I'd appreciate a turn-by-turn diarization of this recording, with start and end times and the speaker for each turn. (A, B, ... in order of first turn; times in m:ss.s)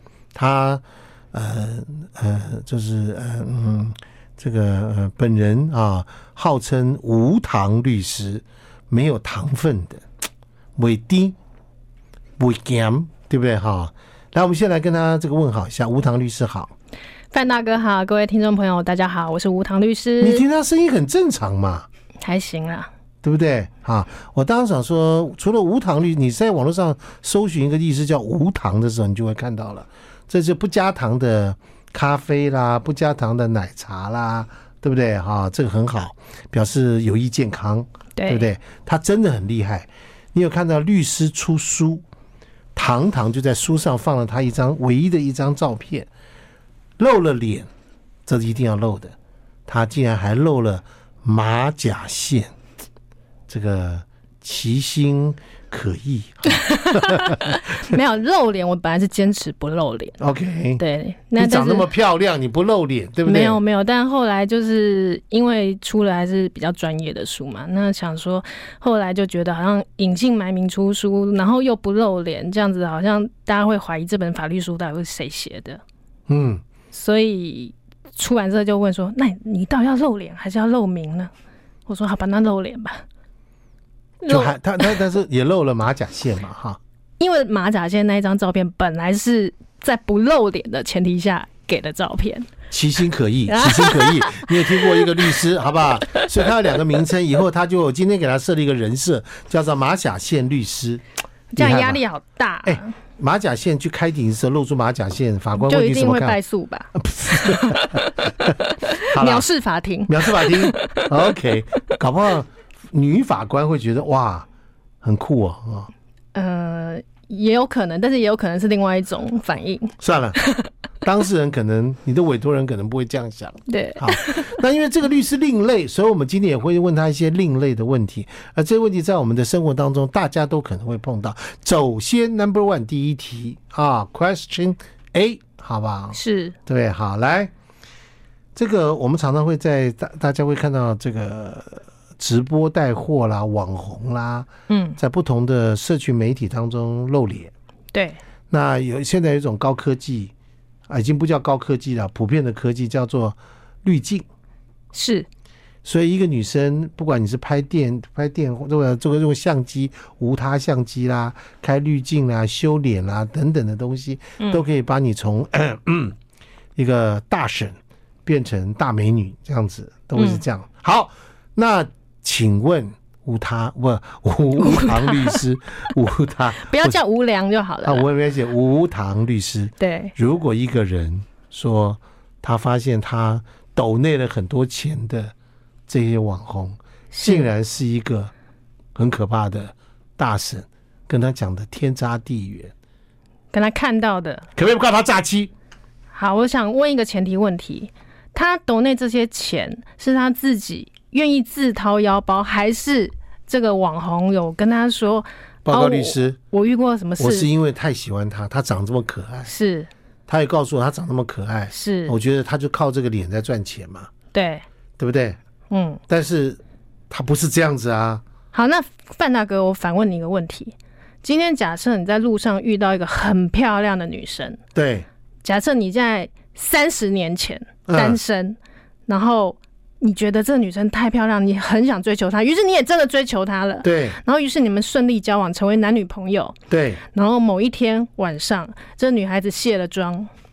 0:00.3-0:10.0 A
0:10.8-0:11.4 A
0:12.4-0:16.7 A
0:17.3-0:20.4 B
0:20.2-0:21.8 A
0:22.2-0:22.9 B
0:23.2-0:42.0 A
0:38.2-0:38.4 B
0:42.8-0:46.1 A
0:47.0-0:47.7 A
0:48.2-0:49.1 A
0:49.7-0:52.5 A
0:53.5-0:57.6 A
0:56.7-1:00.2 B
1:00.2-1:00.8 A
1:00.8-1:01.9 B
1:01.4-1:03.6 A
1:03.2-1:15.8 B
1:16.3-1:16.6 A
1:16.9-1:21.3 B
1:21.9-1:23.0 B
1:24.2-1:25.0 B
1:24.3-1:26.8 A
1:27.2-1:32.5 B
1:32.7-1:41.0 A
1:33.4-1:35.1 B
1:41.5-1:42.9 B
1:41.6-1:42.0 A
1:42.6-1:46.4 A
1:45.6-1:48.1 B
1:46.9-1:49.5 A
1:48.6-1:51.1 B
1:50.1-1:54.4 A
1:55.0-1:55.9 A
1:56.3-2:00.7 B
2:00.0-2:00.4 A
2:01.0-2:17.5 A
2:03.7-2:04.6 B
2:16.1-2:16.6 B
2:18.5-2:27.5 A
2:24.7-2:25.0 B
2:27.9-2:28.2 B
2:28.5-2:30.3 A
2:30.9-2:34.2 A
2:34.9-2:35.3 B
2:35.8-2:46.2 A
2:46.8-2:57.0 A
2:50.2-2:50.4 B
2:54.6-2:55.4 B
2:56.7-2:58.0 B
2:57.8-3:05.3 A
2:59.8-3:00.1 B
3:05.9-3:08.3 A
3:07.1-3:07.5 B
3:08.9-3:12.7 A
3:13.5-3:14.5 B
3:14.6-3:15.5 A
3:16.1-3:27.5 B
3:25.6-3:26.4 A
3:27.2-3:29.5 A
3:29.5-3:29.9 B
3:30.3-3:34.1 A
3:31.7-3:32.2 B
3:34.3-3:34.6 B
3:35.0-3:35.4 A
3:35.7-3:36.0 B
3:36.1-3:38.2 A
3:38.5-3:44.6 B
3:44.7-3:45.0 A
3:45.4-4:00.3 B
3:47.9-3:48.2 A
3:53.8-3:54.2 A
3:56.7-3:57.0 A